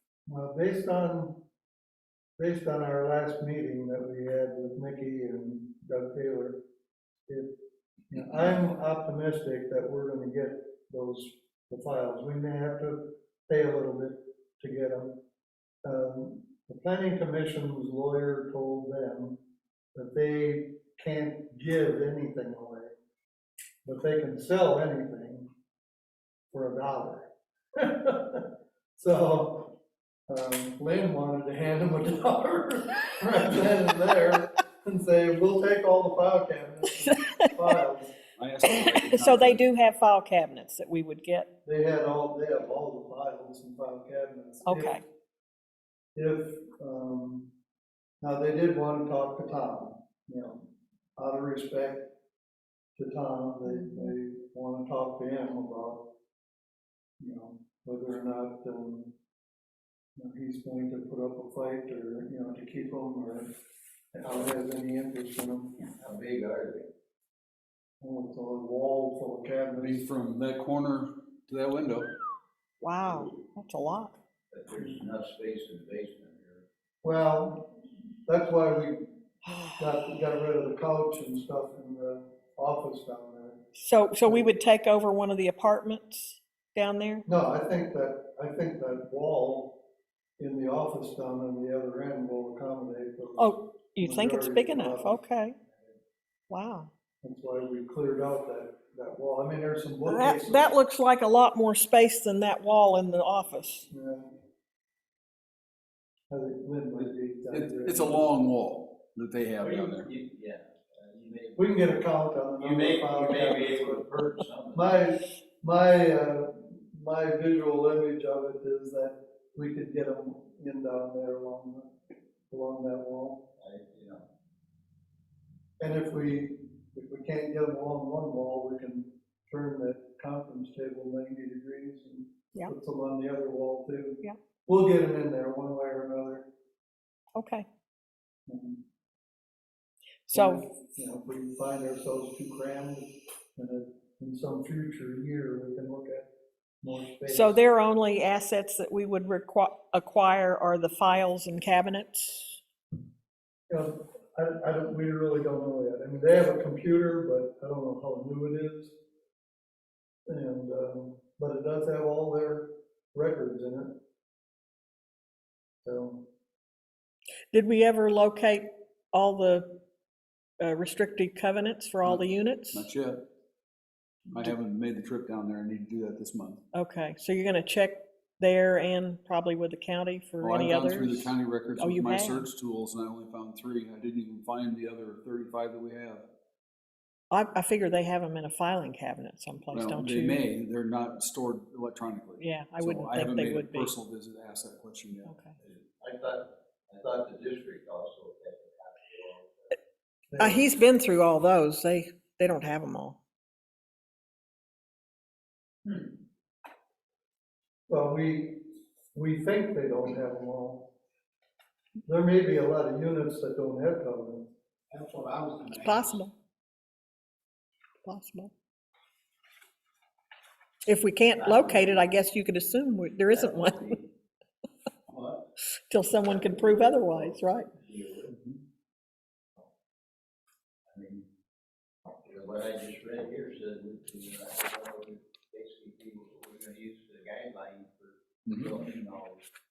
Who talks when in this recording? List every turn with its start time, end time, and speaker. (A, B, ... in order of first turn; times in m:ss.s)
0:00.2-0:01.4 A
0:02.4-0:06.6 A
0:07.3-0:07.6 A
0:08.1-0:15.2 A
0:15.8-0:19.4 A
0:19.9-0:22.9 A
0:23.8-0:25.5 A
0:26.5-0:28.4 A
0:29.0-0:29.7 A
0:30.3-0:38.1 A
0:37.0-0:37.4 B
0:38.4-0:39.6 C
0:38.6-0:41.5 B
0:41.6-0:45.0 A
0:44.6-0:45.0 B
0:46.1-0:47.5 A
0:48.2-0:50.6 A
0:51.2-0:52.1 A
0:53.0-0:56.1 A
0:53.7-0:54.1 B
0:57.2-0:59.1 A
1:00.2-1:03.5 A
1:04.1-1:05.8 A
1:05.9-1:06.9 D
1:08.0-1:10.0 A
1:09.8-1:12.1 C
1:12.8-1:14.2 B
1:14.5-1:16.6 D
1:17.0-1:17.7 A
1:18.2-1:19.1 A
1:19.8-1:23.6 A
1:23.8-1:27.2 B
1:24.2-1:24.5 A
1:27.2-1:29.8 A
1:30.4-1:35.2 A
1:33.4-1:35.6 B
1:36.5-1:36.9 B
1:37.2-1:40.7 A
1:40.0-1:43.9 B
1:43.9-1:44.3 A
1:46.3-1:48.4 A
1:47.5-1:50.1 C
1:49.6-1:51.9 D
1:51.6-2:01.9 A
1:52.6-1:55.0 D
2:02.5-2:03.5 A
2:03.6-2:04.3 D
2:05.8-2:16.5 A
2:17.4-2:17.7 B
2:18.5-2:18.8 A
2:20.3-2:20.6 B
2:20.3-2:26.3 A
2:26.8-2:27.6 A
2:27.2-2:32.6 B
2:33.7-2:39.0 A
2:40.3-2:44.0 A
2:45.8-2:46.3 A
2:47.5-2:49.8 B
2:50.6-2:52.9 B
2:52.0-2:53.2 C
2:54.3-2:56.6 C
2:56.7-3:02.5 B
3:00.4-3:06.2 C
3:07.3-3:10.4 B
3:09.7-3:15.4 C
3:12.4-3:13.9 B
3:15.2-3:15.6 B
3:16.0-3:19.8 D
3:20.3-3:20.6 A
3:20.4-3:23.2 B
3:27.9-3:30.9 A
3:32.0-3:34.5 A
3:34.9-3:36.2 D
3:35.8-3:36.3 B
3:38.0-3:38.5 B
3:40.8-3:44.0 B
3:41.4-3:42.1 D
3:43.3-3:44.1 D
3:45.1-3:45.4 D
3:45.9-3:47.7 B
3:46.2-3:48.4 D
3:50.9-3:51.2 D
3:52.2-3:59.4 D
3:58.5-3:58.8 C